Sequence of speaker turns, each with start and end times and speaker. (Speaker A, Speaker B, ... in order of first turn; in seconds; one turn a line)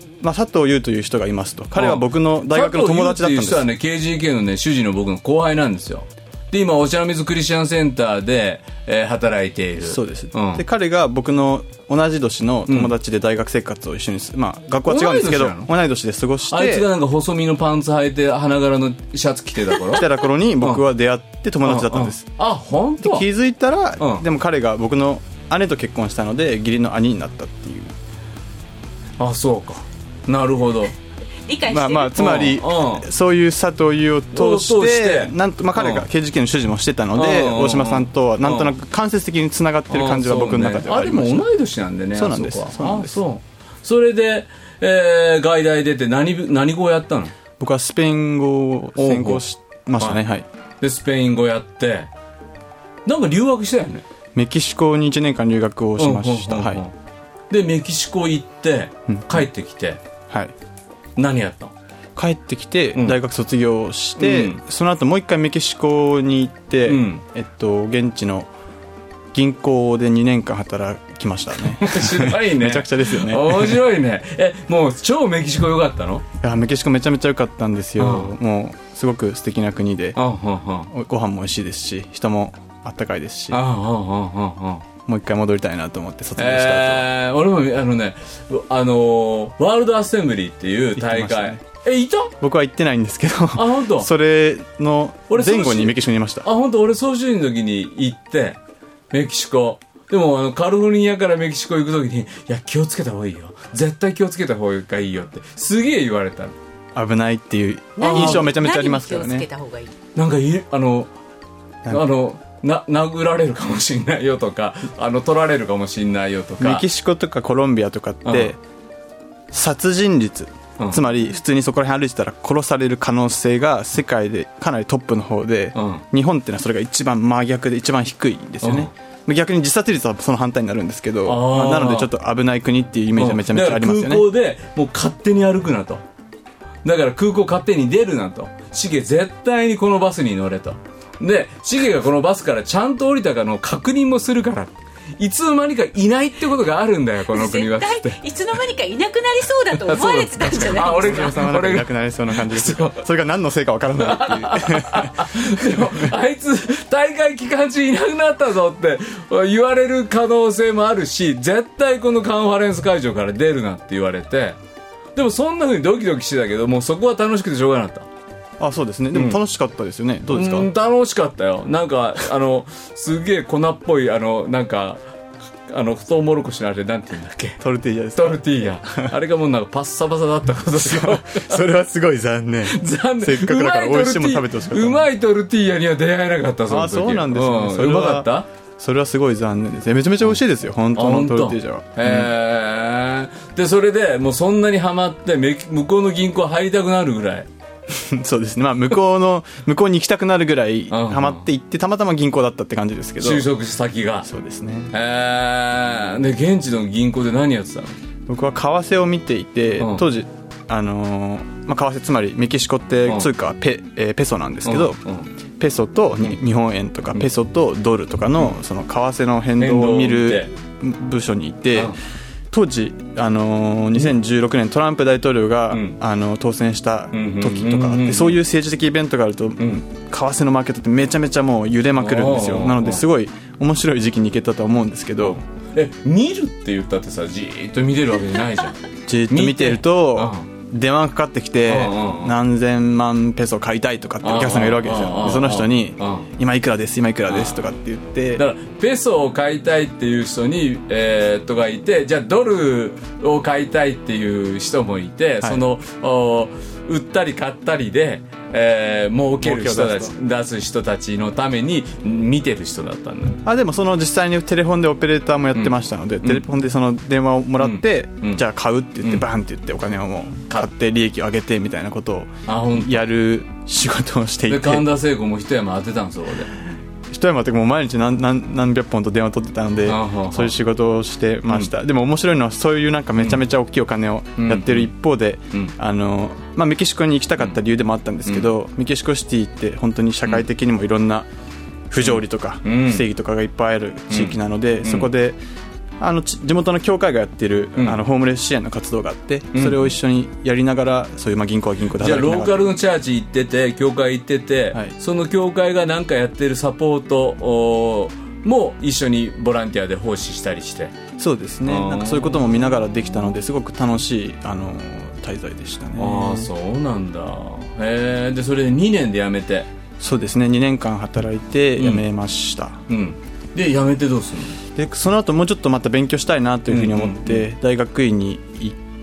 Speaker A: 0.2-3.7
Speaker B: 1.8-10.6
Speaker A: 9.8-16.9
Speaker B: 14.8-15.7
Speaker B: 16.4-20.1
Speaker A: 19.9-22.2
Speaker B: 21.6-23.2
Speaker A: 23.0-27.9
Speaker B: 24.0-24.2
Speaker B: 29.2-30.9
Speaker C: 31.4-32.2
Speaker A: 31.7-41.4
Speaker B: 32.1-33.0
Speaker B: 34.3-36.1
Speaker B: 37.1-38.8
Speaker B: 39.9-47.3
Speaker A: 42.1-43.2
Speaker A: 47.6-50.5
Speaker B: 49.0-49.4
Speaker B: 50.8-52.1
Speaker B: 53.0-54.0
Speaker A: 54.3-56.8
Speaker B: 56.0-56.9
Speaker B: 57.5-60.0
Speaker A: 59.1-59.5
Speaker B: 61.2-61.7
Speaker A: 62.1-68.5
Speaker B: 64.2-64.6
Speaker B: 66.8-67.2
Speaker A: 69.3-73.8
Speaker B: 71.8-76.2
Speaker A: 76.4-80.2
Speaker B: 78.0-78.3
Speaker B: 80.2-80.9
Speaker A: 80.9-83.6
Speaker B: 83.5-84.8
Speaker A: 85.0-87.1
Speaker B: 86.4-92.3
Speaker A: 91.0-91.6
Speaker A: 92.4-96.5
Speaker B: 93.5-94.1
Speaker B: 95.3-98.6
Speaker B: 99.1-106.5
Speaker A: 106.9-109.5
Speaker C: 108.0-109.9
Speaker B: 108.0-108.5
Speaker B: 110.1-111.1
Speaker B: 111.9-116.8
Speaker A: 116.6-118.6
Speaker B: 118.2-118.5
Speaker A: 119.5-134.2
Speaker B: 125.7-126.0
Speaker B: 128.6-128.9
Speaker B: 131.2-132.1
Speaker B: 133.2-136.0
Speaker B: 136.8-148.2
Speaker C: 147.3-151.3
Speaker B: 149.7-153.1
Speaker A: 150.5-156.1
Speaker B: 154.0-164.6
Speaker B: 165.1-168.1
Speaker A: 168.6-170.7
Speaker B: 169.1-169.4
Speaker B: 170.3-175.0
Speaker B: 175.7-177.6
Speaker A: 177.6-179.1
Speaker B: 178.1-181.6
Speaker A: 180.7-185.0
Speaker B: 182.7-188.5
Speaker A: 186.7-192.3
Speaker B: 190.9-197.5
Speaker A: 197.9-203.5
Speaker B: 200.9-201.4
Speaker B: 203.2-204.3
Speaker A: 204.2-204.9
Speaker B: 204.9-208.0
Speaker A: 208.3-215.0
Speaker B: 214.6-215.3
Speaker A: 215.6-221.9
Speaker B: 219.6-220.5
Speaker A: 222.5-235.4
Speaker B: 225.7-225.9
Speaker B: 227.1-228.4
Speaker B: 231.9-233.0
Speaker B: 235.2-238.8
Speaker A: 239.1-248.4
Speaker B: 239.3-240.4
Speaker B: 241.7-242.3
Speaker B: 244.2-246.3
Speaker B: 247.3-247.7
Speaker B: 248.3-263.4
Speaker A: 259.4-260.1
Speaker A: 263.4-274.9
Speaker B: 265.5-266.4
Speaker B: 267.6-268.4
Speaker B: 272.5-273.1
Speaker B: 274.5-276.6
Speaker A: 277.1-291.3
Speaker B: 279.8-280.5
Speaker B: 284.4-284.9
Speaker A: 291.9-295.4
Speaker B: 292.0-293.0
Speaker B: 294.1-295.1
Speaker A: 296.0-302.6
Speaker B: 299.5-299.9
Speaker B: 302.0-310.9
Speaker A: 311.2-316.5
Speaker B: 311.6-312.4
Speaker B: 315.9-319.7
Speaker A: 320.0-322.8
Speaker B: 321.8-322.0
Speaker B: 322.9-324.6
Speaker A: 324.7-328.8
Speaker B: 326.7-327.4